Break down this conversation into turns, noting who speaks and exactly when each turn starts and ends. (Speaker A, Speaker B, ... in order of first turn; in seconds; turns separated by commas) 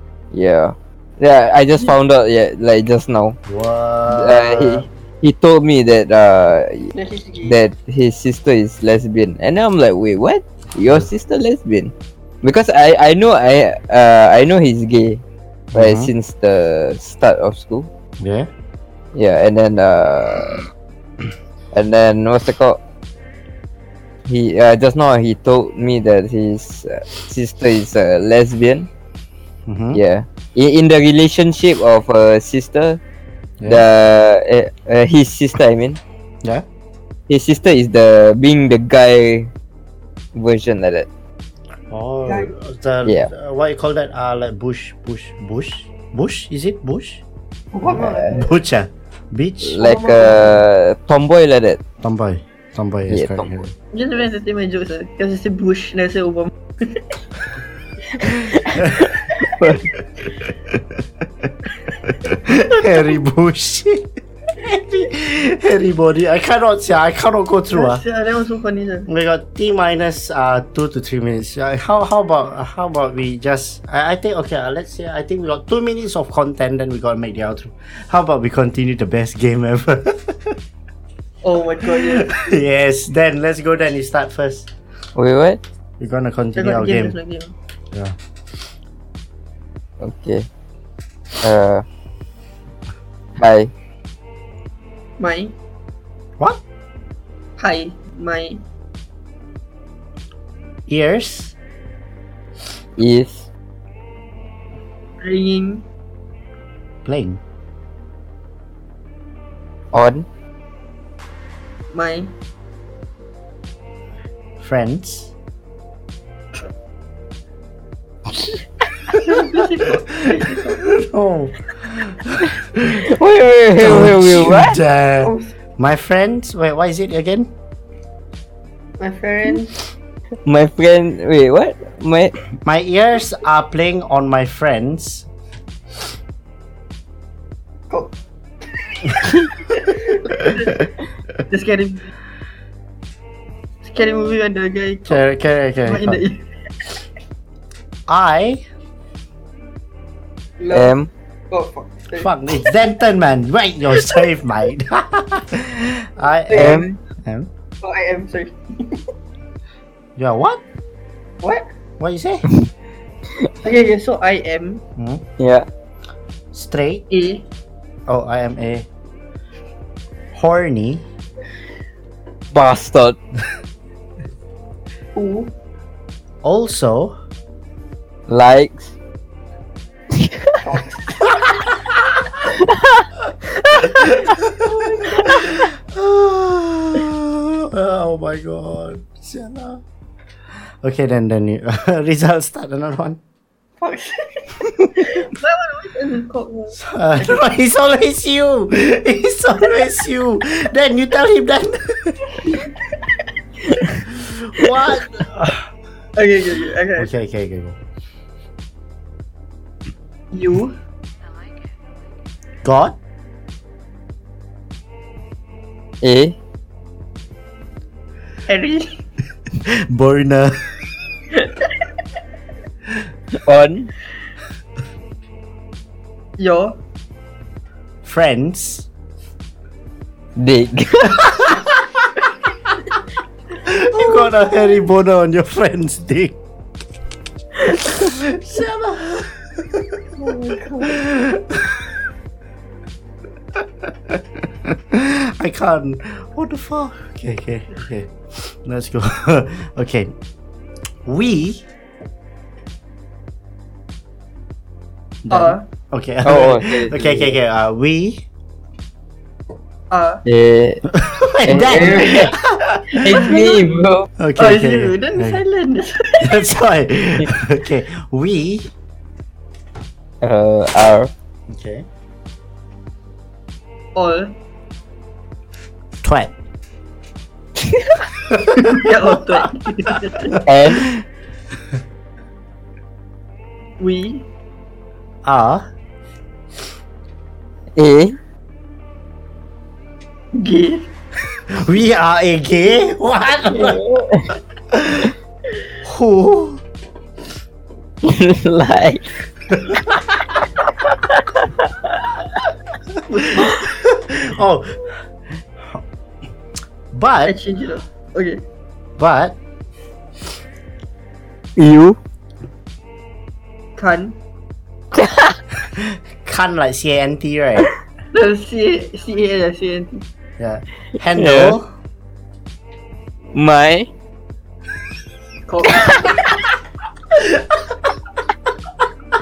Speaker A: 0.3-3.4, Speaker B: 3.5-4.9, Speaker A: 4.1-15.2, Speaker C: 6.9-7.6, Speaker B: 15.7-16.1, Speaker A: 15.7-17.9, Speaker B: 18.2-18.5, Speaker A: 19.1-20.7, Speaker A: 21.7-22.8, Speaker A: 24.3-28.9, Speaker B: 29.7-30.0, Speaker A: 29.9-33.0, Speaker B: 33.6-33.9, Speaker A: 33.7-36.0, Speaker A: 37.3-39.5, Speaker A: 40.4-41.1, Speaker B: 41.9-47.2, Speaker C: 42.3-42.5, Speaker C: 47.7-48.5, Speaker B: 47.9-49.8, Speaker A: 49.6-51.8, Speaker C: 49.8-50.6, Speaker B: 52.0-53.7, Speaker A: 53.1-53.6, Speaker C: 53.9-57.1, Speaker A: 58.3-59.9, Speaker B: 60.7-61.0, Speaker B: 62.1-68.0, Speaker C: 62.7-63.0, Speaker C: 67.7-69.1, Speaker B: 69.1-80.6, Speaker C: 81.4-82.3, Speaker B: 81.9-84.7, Speaker A: 85.2-85.6, Speaker B: 86.0-87.2, Speaker C: 86.6-87.5, Speaker A: 90.0-90.5, Speaker A: 91.4-91.8, Speaker A: 93.4-93.7, Speaker C: 95.2-95.5, Speaker C: 97.6-98.6, Speaker B: 100.9-101.6, Speaker A: 103.0-103.5, Speaker C: 105.2-105.8, Speaker B: 107.0-107.4, Speaker A: 109.9-110.3, Speaker C: 111.9-112.3, Speaker B: 114.6-115.3, Speaker C: 119.1-120.9, Speaker B: 120.5-123.0, Speaker A: 122.9-124.8, Speaker B: 123.8-127.5, Speaker C: 125.2-125.5, Speaker C: 129.0-129.8, Speaker A: 130.5-132.4, Speaker B: 132.6-135.3, Speaker C: 139.0-140.8, Speaker C: 141.5-142.1, Speaker C: 143.8-145.2, Speaker B: 145.1-146.2, Speaker C: 145.8-146.5, Speaker B: 148.1-148.6, Speaker C: 150.6-150.9, Speaker A: 150.7-151.1, Speaker C: 151.5-152.3, Speaker B: 152.2-157.5, Speaker C: 156.5-156.9, Speaker A: 156.5-157.0, Speaker C: 157.8-159.1, Speaker B: 160.2-160.6, Speaker C: 161.4-161.7, Speaker B: 162.0-162.5, Speaker C: 163.6-164.8, Speaker B: 165.0-165.2, Speaker A: 165.4-165.7, Speaker B: 166.5-167.1, Speaker C: 167.1-167.4, Speaker B: 168.1-168.9, Speaker B: 170.3-171.1, Speaker A: 172.5-173.2, Speaker C: 175.2-175.5, Speaker B: 176.4-177.2, Speaker A: 178.3-178.9, Speaker A: 180.2-180.5, Speaker C: 180.6-181.4, Speaker A: 182.6-183.0, Speaker B: 183.9-189.8, Speaker C: 184.7-185.5, Speaker B: 190.8-193.2, Speaker C: 193.8-197.4, Speaker B: 196.8-202.4, Speaker C: 202.4-203.2, Speaker B: 204.1-205.7, Speaker C: 206.2-207.1, Speaker B: 207.0-207.8, Speaker C: 210.3-210.8, Speaker B: 212.6-213.0, Speaker A: 216.0-216.4, Speaker C: 218.5-219.0, Speaker B: 219.6-220.6, Speaker C: 221.4-221.7, Speaker A: 223.4-223.9, Speaker C: 226.4-226.8, Speaker B: 228.0-228.9, Speaker A: 230.4-231.5, Speaker B: 231.2-231.7, Speaker B: 233.6-236.4, Speaker C: 233.9-234.8, Speaker B: 237.6-240.1, Speaker C: 240.2-241.1, Speaker B: 240.8-242.0, Speaker B: 243.8-250.1, Speaker B: 251.1-251.7, Speaker B: 255.2-258.3, Speaker C: 255.3-255.7, Speaker A: 256.2-257.3, Speaker C: 259.9-260.2, Speaker A: 260.3-260.9, Speaker B: 260.9-263.4, Speaker A: 261.5-262.3, Speaker C: 262.1-262.3, Speaker C: 262.9-263.9, Speaker A: 263.0-264.1, Speaker B: 264.2-265.4, Speaker C: 264.4-266.4, Speaker B: 266.2-268.7, Speaker A: 270.2-271.1, Speaker B: 271.5-271.9, Speaker C: 274.0-274.3, Speaker B: 276.0-276.3, Speaker A: 277.7-278.0, Speaker B: 278.3-278.9, Speaker C: 278.6-280.4, Speaker B: 280.1-281.0, Speaker A: 280.4-280.9, Speaker C: 283.8-284.3, Speaker B: 285.2-285.7, Speaker A: 287.8-288.2, Speaker C: 290.3-290.9, Speaker B: 291.3-293.8, Speaker A: 293.5-294.3, Speaker B: 294.7-295.1, Speaker B: 295.8-296.6, Speaker A: 298.0-299.1, Speaker B: 299.5-300.1, Speaker A: 300.8-302.1, Speaker C: 303.1-303.7, Speaker B: 303.4-304.9, Speaker B: 306.9-307.4, Speaker C: 307.3-308.4, Speaker B: 309.0-309.4, Speaker A: 311.6-312.0, Speaker C: 313.8-314.2, Speaker A: 314.9-315.4, Speaker B: 315.7-317.7, Speaker C: 318.1-320.1, Speaker B: 320.4-321.7, Speaker A: 321.1-321.6, Speaker A: 323.3-323.9, Speaker C: 325.5-326.4, Speaker B: 327.1-327.6